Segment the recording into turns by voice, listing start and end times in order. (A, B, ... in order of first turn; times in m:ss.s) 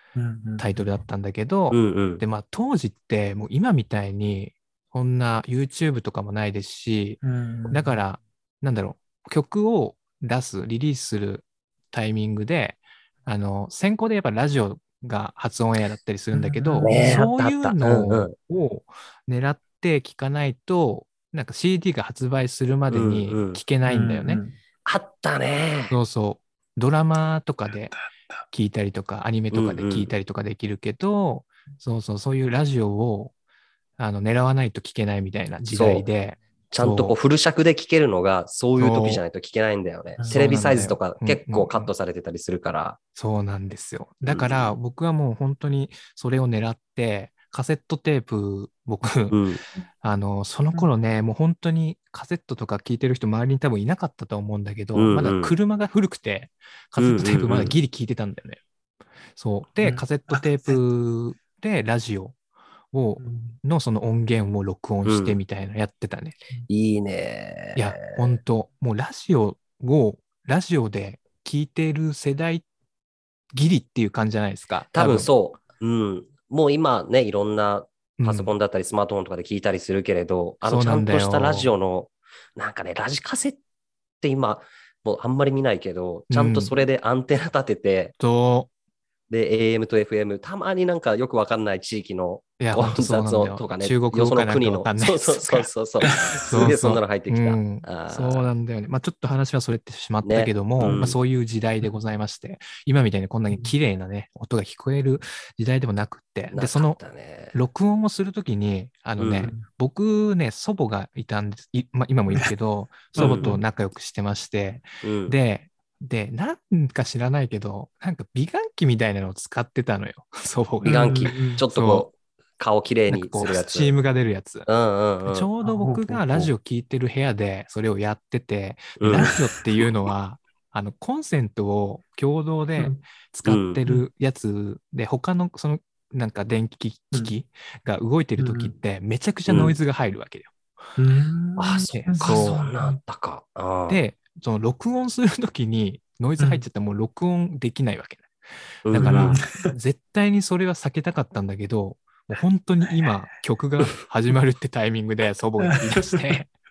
0:00.1-0:00.9 A
0:00.6-0:07.2 B
0:01.7-0:02.2 C
0:07.2-0:08.0 A
0:07.7-0:24.4 B
0:16.3-0:17.2 A
0:16.8-0:18.4 C
0:22.9-0:23.6 C
0:23.8-0:24.6 A
0:24.8-0:26.0 C
0:25.9-0:27.9 B
0:27.7-0:28.4 A
0:28.5-0:33.3 B
0:29.5-0:30.1 C
0:34.0-0:37.2 B
0:35.7-0:36.1 C
0:36.7-0:43.0 C
0:38.8-0:39.2 B
0:40.2-0:40.8 A
0:40.3-0:41.9 B
0:43.2-0:49.4 B
0:44.2-0:44.7 C
0:49.3-0:49.6 C
0:50.0-0:58.6 B
0:54.9-0:55.6 C
0:57.0-0:57.8 C
0:59.4-1:02.4 B
0:59.8-1:00.8 A
1:02.9-1:06.4 B
1:03.2-1:03.6 A
1:05.0-1:05.4 C
1:06.7-1:08.3 C
1:07.8-1:12.6 B
1:13.5-1:15.3 B
1:14.9-1:23.6 C
1:18.2-1:18.5 B
1:20.6-1:21.7 B
1:24.2-1:28.1 C
1:26.3-1:26.7 B
1:28.2-1:28.7 B
1:29.3-1:38.5 C
1:32.6-1:35.7 B
1:36.0-1:36.7 A
1:36.5-1:47.0 B
1:40.2-1:41.2 C
1:40.8-1:41.1 A
1:46.5-1:47.6 C
1:47.5-2:02.1 B
1:49.2-1:49.5 C
1:49.4-1:49.7 A
1:53.1-1:53.6 A
1:53.2-1:53.5 C
1:55.0-1:55.4 C
2:00.8-2:01.6 A
2:00.8-2:03.9 C
2:03.1-2:04.7 B
2:04.7-2:05.5 C
2:05.2-2:20.5 B
2:05.6-2:06.3 A
2:09.0-2:09.4 C
2:09.1-2:09.4 A
2:12.8-2:13.0 A
2:13.4-2:13.8 C
2:18.4-2:18.7 A
2:19.5-2:19.7 C
2:21.0-2:23.0 A
2:21.6-2:24.0 C
2:21.9-2:22.6 B
2:23.9-2:28.3 B
2:26.4-2:26.6 A
2:28.8-2:29.4 C
2:28.9-2:36.5 B
2:29.0-2:29.7 A
2:32.8-2:33.1 A
2:35.6-2:36.4 A